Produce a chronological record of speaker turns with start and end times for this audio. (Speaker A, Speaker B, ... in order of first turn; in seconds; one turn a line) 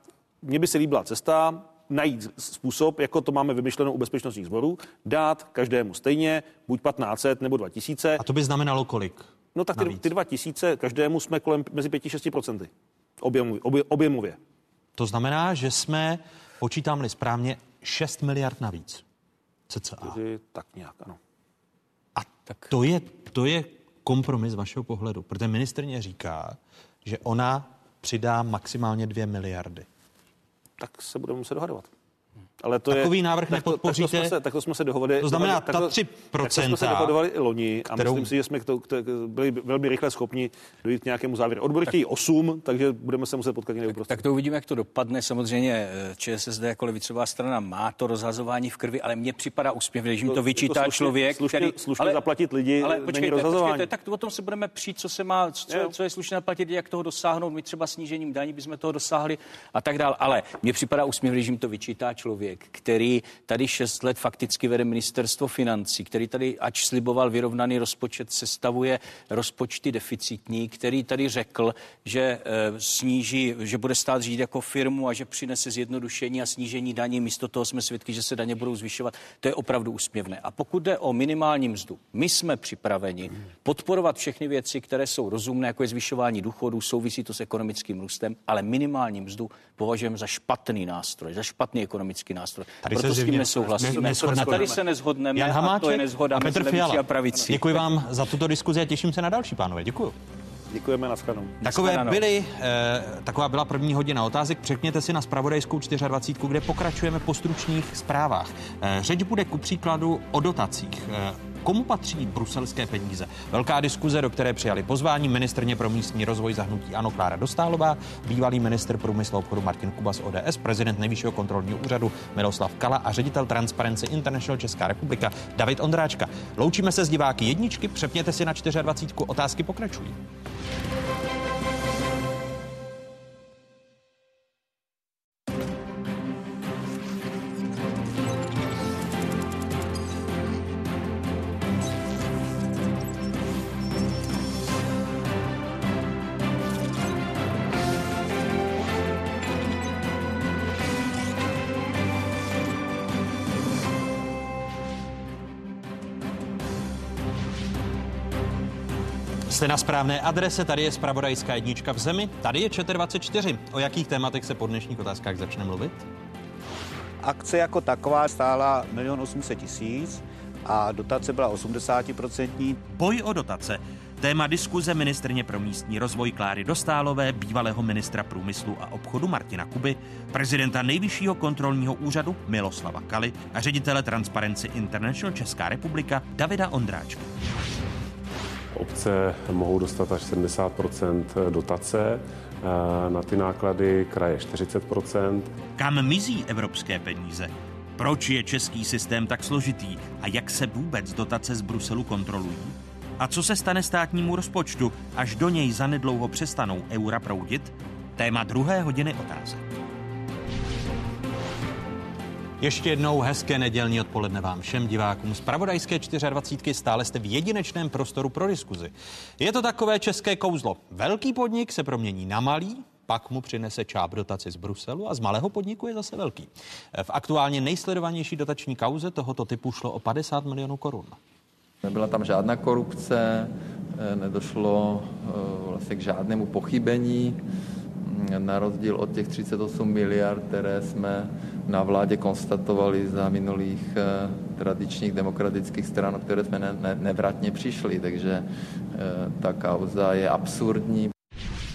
Speaker A: 0.4-8.2
Speaker B: 8.2-10.0
Speaker A: 9.6-12.7
Speaker A: 13.2-14.4
Speaker B: 15.0-19.0
Speaker B: 19.7-20.2
Speaker A: 20.1-21.2
Speaker B: 22.2-29.9
Speaker A: 30.8-31.9
Speaker A: 32.6-44.1
Speaker B: 32.9-34.3
Speaker B: 35.2-37.1
Speaker B: 37.9-38.3
Speaker C: 44.0-52.2
Speaker A: 50.3-53.9
Speaker C: 52.8-97.8
Speaker B: 92.8-94.7
Speaker A: 93.6-94.8
Speaker B: 95.4-100.2
Speaker A: 100.7-101.6
Speaker B: 101.6-130.2
Speaker C: 101.6-102.2
Speaker B: 159.5-166.1
Speaker D: 167.2-172.8
Speaker B: 172.9-187.3
Speaker E: 188.8-195.5
Speaker B: 195.8-209.7
Speaker B: 212.6-231.2
Speaker F: 231.8-237.4
Speaker F: 238.0-251.1